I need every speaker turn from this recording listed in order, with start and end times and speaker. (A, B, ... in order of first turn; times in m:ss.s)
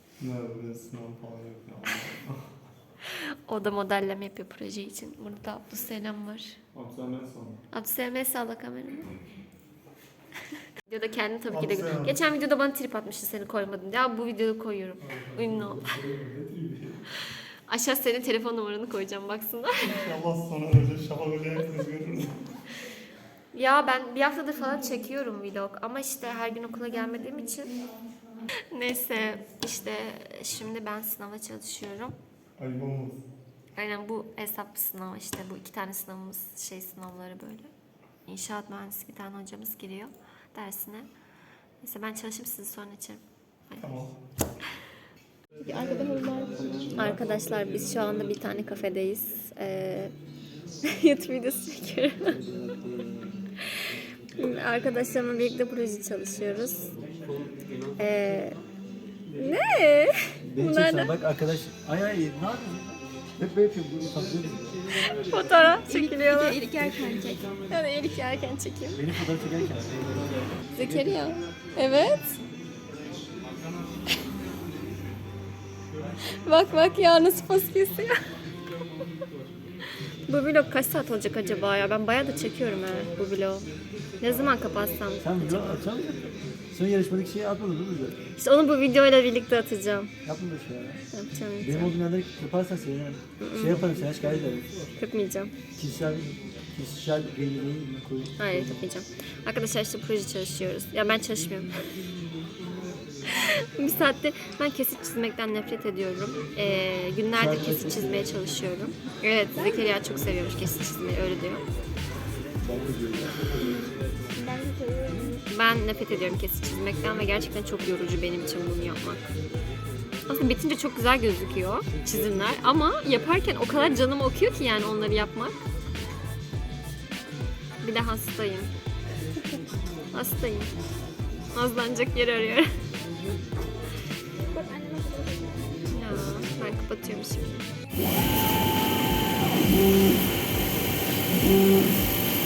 0:00.2-0:02.5 A
0:03.1-0:06.6 B
0:06.7-0:07.6 A
0:07.7-0:09.1 B
0:10.9-0:16.0 B
0:11.5-0:12.2 A
0:15.0-0:17.0 A
0:17.7-0:20.0 B
0:19.8-0:22.4 A
0:23.5-0:27.8 B
0:28.7-0:32.2 B
0:32.6-0:33.2 A
0:33.8-0:37.7 B
0:38.2-0:41.1 B
0:41.8-0:43.8 B
0:43.8-0:44.2 A
0:45.6-0:46.6 C
0:46.7-0:47.1 D
0:46.9-0:50.1 B
0:50.8-0:52.4 B
0:52.2-0:53.4 D
0:54.4-0:56.9 B
0:58.0-0:58.6 B
0:59.3-1:01.1 B
1:00.4-1:04.8 D
1:05.0-1:06.6 B
1:05.9-1:07.5 C
1:07.7-1:09.0 B
1:08.9-1:11.2 D
1:10.7-1:12.4 B
1:16.3-1:18.2 B
1:20.3-1:23.7 B
1:24.2-1:25.8 B
1:25.2-1:28.2 D
1:28.4-1:30.1 B
1:30.2-1:31.0 D
1:31.1-1:31.9 B
1:31.6-1:34.7 D
1:33.4-1:33.8 B
1:35.0-1:35.5 B
1:35.8-1:38.9 D
1:38.4-1:41.7 B
1:43.4-1:51.6 B
1:47.4-1:48.3 D
1:49.6-1:49.9 C
1:52.6-1:53.8 A
1:53.6-1:55.4 C
1:55.4-1:59.3 B
2:00.3-2:05.6 B
2:07.8-2:08.7 B
2:10.1-2:10.7 B
2:11.5-2:12.7 B
2:14.5-2:15.7 C
2:15.9-2:17.6 B